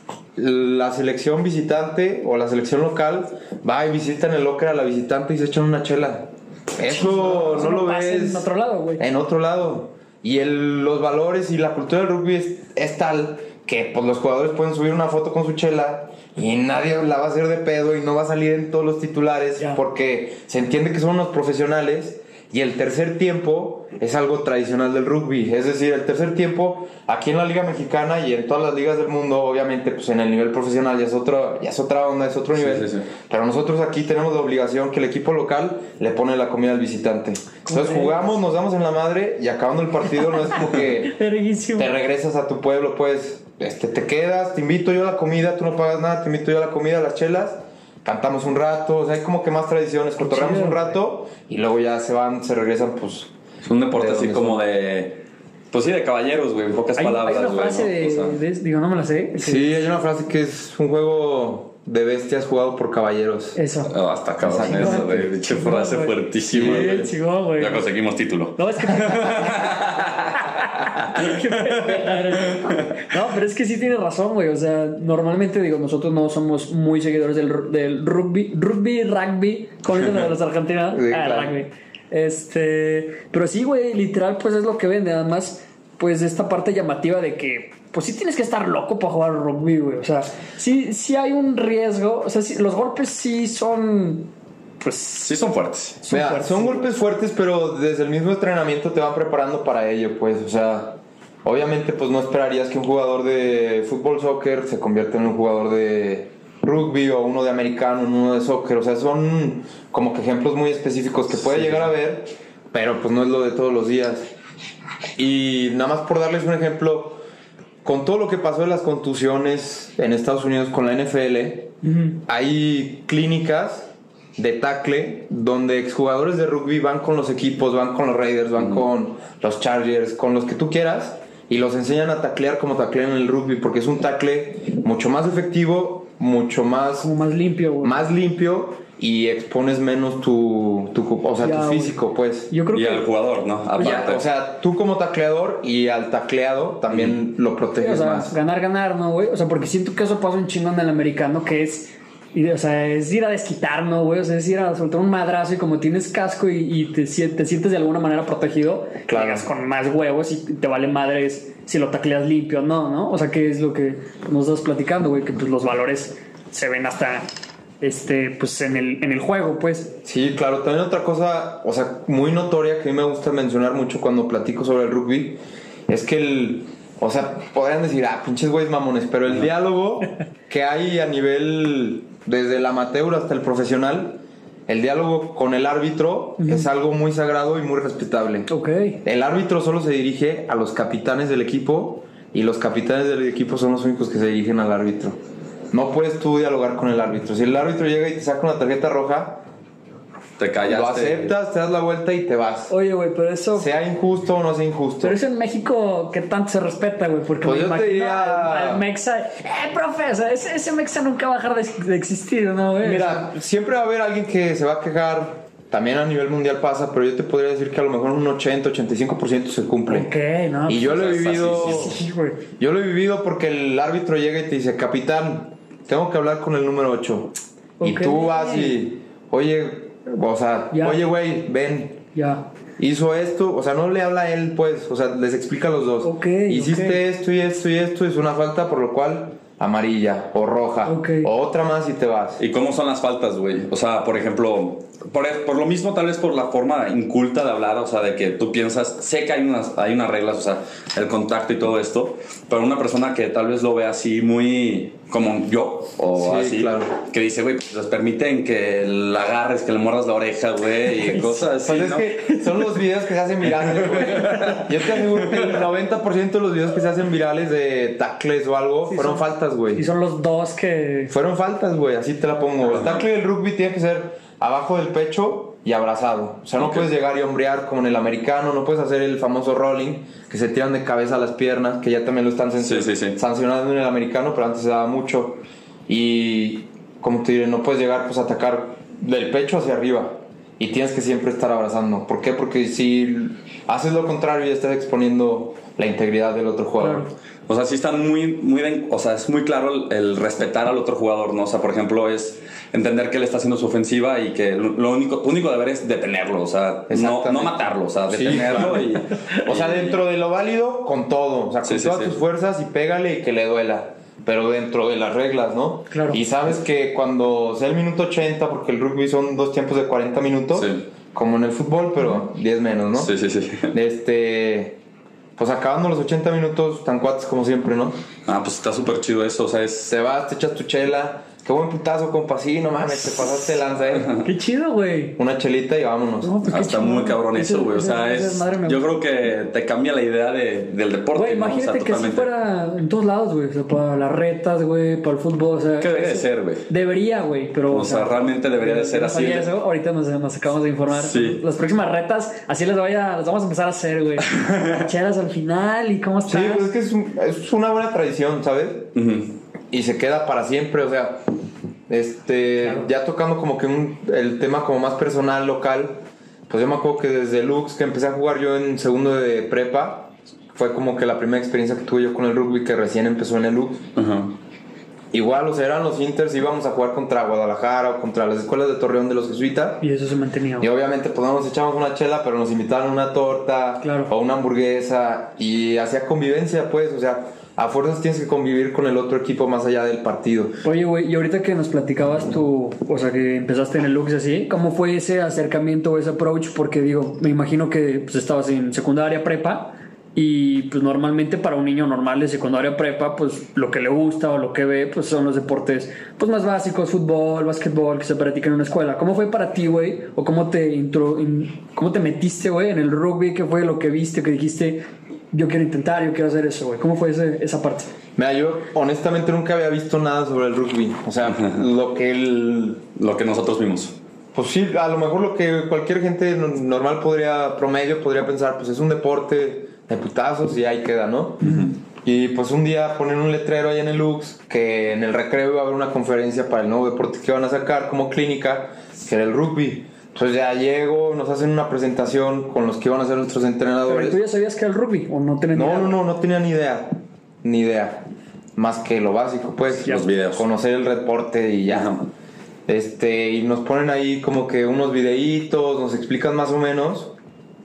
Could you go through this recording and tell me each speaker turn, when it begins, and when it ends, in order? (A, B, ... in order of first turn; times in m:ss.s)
0:00.4-0:41.2 A
0:06.9-0:09.0 B
0:32.5-0:33.1 C
0:37.7-0:38.3 B
0:41.0-0:41.9 B
0:41.8-0:53.3 A
0:50.2-0:50.9 B
0:53.6-0:58.4 C
0:53.9-0:54.6 A
0:57.0-0:59.8 B
0:59.4-1:03.6 A
1:03.6-1:03.9 B
1:03.9-1:12.9 C
1:04.4-1:05.3 A
1:04.7-1:07.9 B
1:06.5-1:07.0 A
1:08.6-1:09.8 B
1:10.4-1:34.3 B
1:20.9-1:21.6 A
1:34.8-1:35.4 B
1:35.2-1:36.0 C
1:36.0-1:36.9 B
1:36.1-1:54.3 A
1:51.5-1:51.8 C
1:55.2-1:57.2 A
1:57.8-2:17.1 A
2:01.8-2:02.2 B
2:17.0-2:18.1 B
2:17.8-2:22.5 A
2:21.4-2:22.0 B
2:22.5-2:23.1 B
2:22.7-2:24.2 C
2:23.8-2:24.0 B
2:23.8-2:28.4 A
2:26.9-2:27.2 C
2:27.8-2:47.3 B
2:39.1-2:39.5 A
2:47.8-2:50.0 B
2:50.0-3:08.5 A
3:06.4-3:06.7 B
3:08.5-3:09.0 B
3:09.0-3:15.2 A
3:15.7-3:19.4 A
3:20.4-3:21.3 C
3:20.6-3:22.7 A
3:22.7-3:23.7 B
3:23.6-3:25.2 A
3:25.0-3:33.3 B
3:27.4-3:28.9 A
3:32.8-3:40.1 A
3:39.9-3:40.9 B
3:40.7-3:42.0 A
3:40.8-3:42.0 C
3:41.5-3:42.4 B
3:42.6-3:52.0 A
3:47.8-3:48.8 B
3:50.7-3:51.0 B
3:52.1-3:52.5 B
3:52.8-4:02.4 A
3:56.0-3:57.0 B
4:00.9-4:01.3 B
4:02.4-4:22.5 C
4:16.2-4:16.9 A
4:21.0-4:21.4 B
4:21.6-4:29.8 A
4:23.5-4:25.6 C
4:28.9-4:29.2 B
4:29.8-4:31.1 B
4:31.1-4:57.1 A
4:36.6-4:36.9 C
4:42.6-4:43.2 C
4:56.8-4:57.1 B
4:57.5-5:10.0 C
5:06.9-5:23.1 A
5:11.7-5:12.1 C
5:15.9-5:16.2 B
5:20.5-5:20.8 C
5:23.0-5:23.7 C
5:23.7-5:24.8 A
5:25.4-5:28.0 A
5:28.3-5:29.9 C
5:29.9-5:34.3 A
5:34.2-5:35.2 B
5:35.2-5:36.4 A
5:36.2-5:38.8 B
5:36.5-5:42.3 C
5:41.2-5:56.7 B
5:45.8-5:46.7 C
5:47.7-5:49.5 C
5:50.9-5:51.4 C
5:54.3-5:54.7 C
5:56.3-5:58.9 A
5:59.0-5:59.4 C
5:59.7-6:01.3 A
6:01.9-6:13.8 A
6:14.0-6:14.4 C
6:15.1-6:19.8 A
6:19.8-6:20.7 B
6:20.6-6:30.6 A
6:23.8-6:24.1 B
6:30.6-6:57.9 B
6:58.2-7:02.8 A
7:01.2-7:01.6 C
7:03.0-7:04.0 C
7:04.3-7:24.2 A
7:11.4-7:11.7 C
7:23.9-7:26.0 B
7:25.5-7:32.0 A
7:29.8-7:30.4 C
7:31.7-7:32.0 C
7:32.7-7:37.1 A